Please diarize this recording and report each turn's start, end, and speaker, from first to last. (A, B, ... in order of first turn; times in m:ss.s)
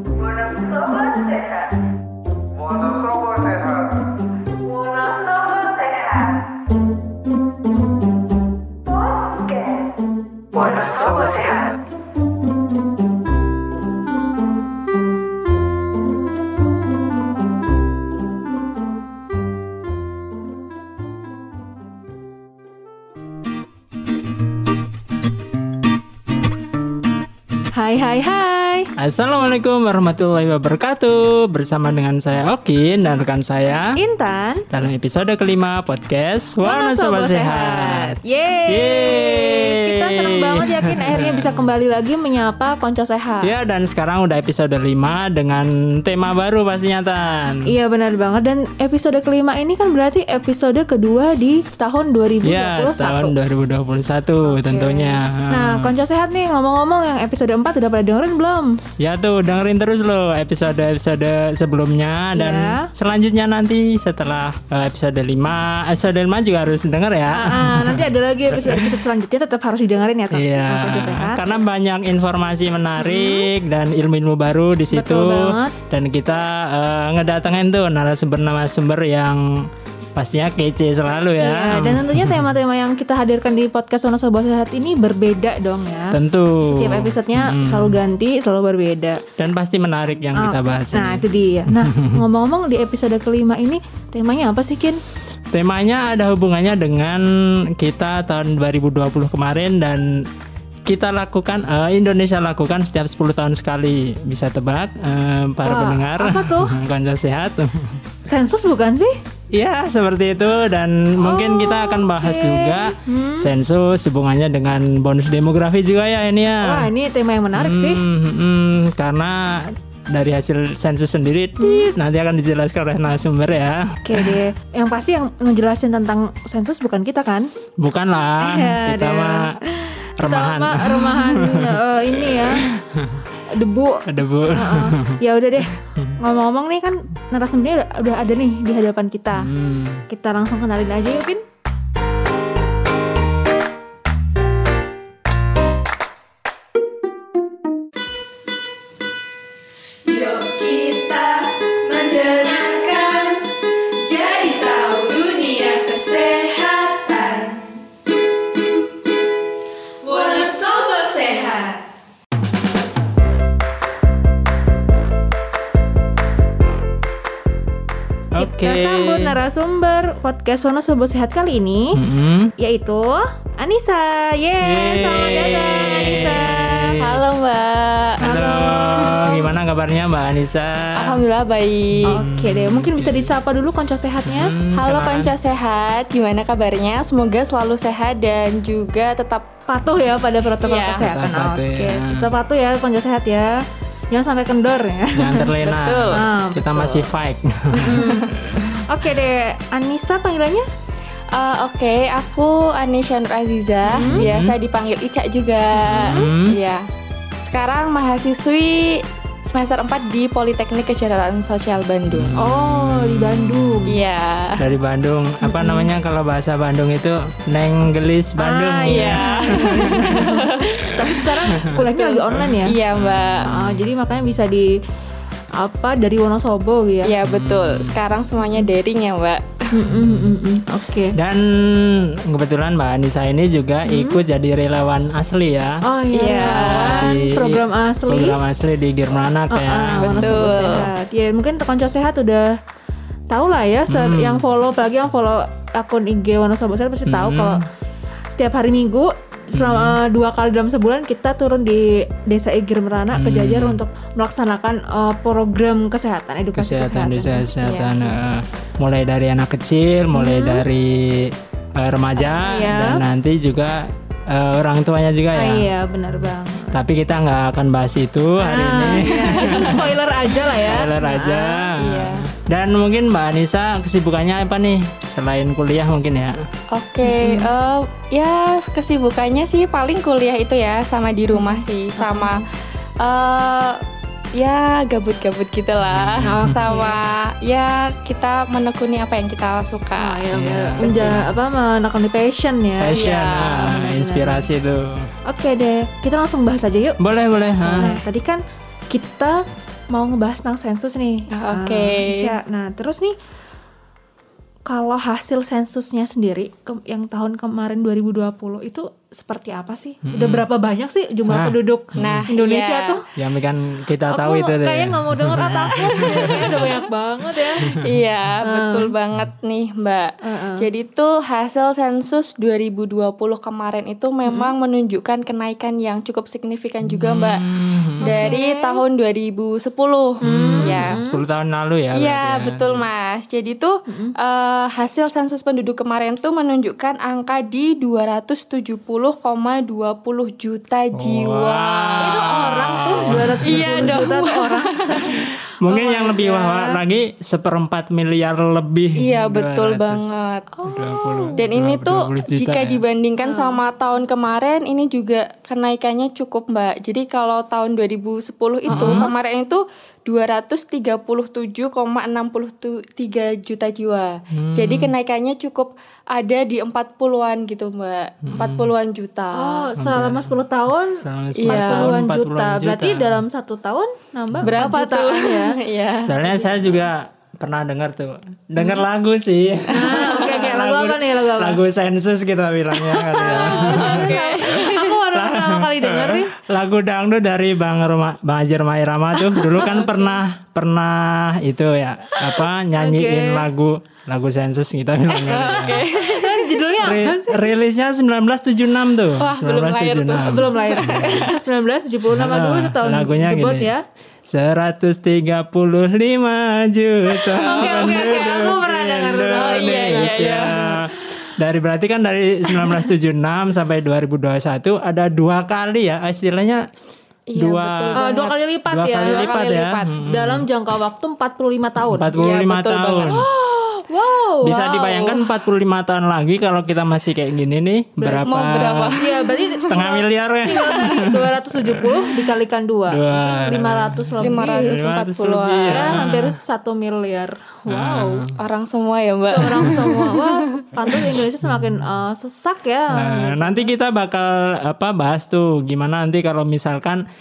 0:00.2-0:01.7 A
0:02.6-0:04.0 B
0:04.6-0:06.3 A
0:09.2-0:09.8 A
0:10.5-0:11.8 B
0:10.6-0:11.8 A
0:27.7-0:28.9 A
0:29.0-0:34.0 B
0:34.0-0:34.7 A
0:34.7-0:41.7 B
0:36.6-0:43.5 A
0:43.4-0:47.7 B
0:47.7-0:53.4 A
0:52.4-0:55.9 B
0:54.5-0:58.8 A
0:59.0-1:08.9 B
1:02.4-1:02.9 A
1:07.3-1:11.4 A
1:10.3-1:19.6 B
1:13.0-1:13.5 A
1:14.9-1:15.7 A
1:20.2-1:22.5 B
1:21.4-1:29.2 A
1:26.1-1:28.0 B
1:29.4-1:32.2 B
1:30.4-1:35.0 A
1:35.5-1:40.1 B
1:40.8-1:48.0 B
1:45.6-1:46.7 A
1:48.2-1:49.1 A
1:49.5-1:56.9 B
1:51.2-1:53.5 A
1:56.6-1:58.1 A
1:57.6-2:04.4 B
2:01.6-2:01.9 A
2:04.0-2:07.5 A
2:07.8-2:09.6 B
2:08.4-2:12.6 A
2:10.2-2:13.3 B
2:13.5-2:19.5 A
2:14.0-2:16.2 B
2:19.4-2:20.0 B
2:20.1-2:21.4 A
2:30.1-2:37.7 A
2:40.0-2:41.8 A
2:48.4-2:49.4 B
2:48.4-2:52.0 A
2:51.9-2:52.5 B
2:52.6-2:57.0 A
2:54.6-2:57.2 B
2:57.0-2:59.2 C
2:58.2-2:59.5 A
2:58.2-3:01.2 B
3:01.0-3:02.2 C
3:01.9-3:03.3 B
3:02.1-3:04.5 A
3:04.2-3:05.3 B
3:04.8-3:09.5 C
3:09.7-3:13.6 A
3:10.6-3:11.1 C
3:11.0-3:12.3 B
3:14.1-3:15.5 A
3:15.2-3:18.8 B
3:15.6-3:16.2 C
3:16.1-3:16.9 A
3:17.8-3:18.3 A
3:17.9-3:18.4 C
3:18.9-3:20.7 A
3:21.3-3:26.8 C
3:23.9-3:24.2 A
3:24.0-3:24.6 B
3:25.8-3:26.6 B
3:26.0-3:26.3 A
3:27.4-3:32.3 C
3:32.1-3:33.9 B
3:32.4-3:33.9 A
3:33.9-3:34.7 C
3:34.6-3:40.4 B
3:35.5-3:35.9 A
3:38.4-3:42.8 A
3:38.8-3:40.8 C
3:41.0-3:41.9 B
3:41.9-3:43.6 C
3:42.9-3:43.9 B
3:43.4-3:44.7 A
3:45.6-3:47.1 A
3:47.0-3:49.7 C
3:47.2-3:48.0 B
3:49.7-3:51.2 A
3:49.9-3:50.3 B
3:51.2-3:55.8 B
3:53.9-3:54.2 A
3:55.8-3:58.4 A
3:56.1-3:57.1 C
3:56.5-4:00.6 B
3:59.5-4:02.6 A
4:00.0-4:00.9 C
4:03.3-4:07.6 A
4:03.9-4:04.4 B
4:07.1-4:07.6 B
4:08.3-4:17.5 A
4:09.5-4:10.0 B
4:13.1-4:13.8 B
4:16.6-4:25.7 B
4:17.6-4:18.1 C
4:20.1-4:20.6 A
4:22.2-4:23.0 A
4:25.3-4:26.8 A
4:26.6-4:36.4 B
4:28.4-4:31.7 A
4:29.1-4:29.8 C
4:31.8-4:32.3 C
4:36.7-4:42.4 C
4:37.0-4:37.5 A
4:41.3-4:42.4 A
4:43.0-4:43.8 C
4:44.4-4:50.3 C
4:45.9-4:46.7 B
4:46.6-4:47.0 A
4:50.0-4:54.4 A
4:50.3-4:51.3 B
4:50.8-4:51.2 C
4:52.8-4:55.1 B
4:53.0-4:53.6 C
4:55.3-4:57.0 A
4:57.0-4:57.9 B
4:57.6-5:03.2 A
5:01.3-5:02.3 C
5:04.7-5:13.0 A
5:10.0-5:10.5 B
5:11.3-5:12.3 B
5:12.0-5:13.0 C
5:13.2-5:16.8 B
5:14.1-5:17.7 A
5:17.6-5:18.0 B
5:17.7-5:27.4 C
5:18.4-5:18.9 A
5:20.2-5:20.6 A
5:24.3-5:24.5 A
5:26.8-5:28.3 B
5:28.0-5:31.0 C
5:28.0-5:28.8 A
5:30.2-5:31.2 A
5:30.2-5:32.9 B
5:31.9-5:45.1 C
5:33.9-5:34.2 A
5:41.0-5:44.2 B
5:42.0-5:45.1 A
5:45.6-5:52.8 B
5:45.7-5:46.8 A
5:49.0-5:50.5 C
5:50.7-5:51.4 A
5:51.4-6:09.7 C
5:53.2-5:53.6 A
5:58.7-5:59.1 A
5:58.7-5:59.1 B
6:04.3-6:04.9 B
6:08.2-6:08.7 B
6:09.3-6:15.6 A
6:09.8-6:10.4 B
6:10.9-6:13.2 B
6:11.4-6:12.0 C
6:14.3-6:14.7 B
6:14.4-6:16.7 C
6:16.0-6:24.2 B
6:19.7-6:21.6 A
6:19.9-6:20.4 C
6:22.9-6:26.3 A
6:23.2-6:25.0 C
6:25.1-6:35.8 B
6:29.3-6:30.2 A
6:32.8-6:33.5 A
6:35.2-6:36.6 C
6:35.5-6:37.5 A
6:36.8-6:41.3 B
6:39.2-6:41.4 C
6:40.2-6:43.8 A
6:42.1-6:43.7 B
6:44.3-6:56.6 B
6:47.3-6:48.6 C
6:47.4-6:51.0 A
6:49.3-6:50.9 C
6:57.3-6:58.4 C
6:57.4-6:58.1 B
6:58.0-6:59.4 A
6:58.7-7:00.5 B
6:59.0-7:00.0 C
7:00.0-7:02.1 A
7:01.8-7:03.2 B
7:02.2-7:03.2 C
7:03.1-7:04.6 A
7:04.4-7:09.0 B
7:04.5-7:05.2 C
7:08.0-7:08.3 A
7:08.2-7:09.7 C
7:09.0-7:14.7 A
7:09.7-7:12.1 B
7:12.9-7:16.4 B
7:14.2-7:16.0 C
7:15.7-7:18.3 A
7:17.7-7:18.4 B
7:18.4-7:20.6 C
7:19.3-7:23.7 A
7:20.9-7:21.8 B
7:22.9-7:27.0 B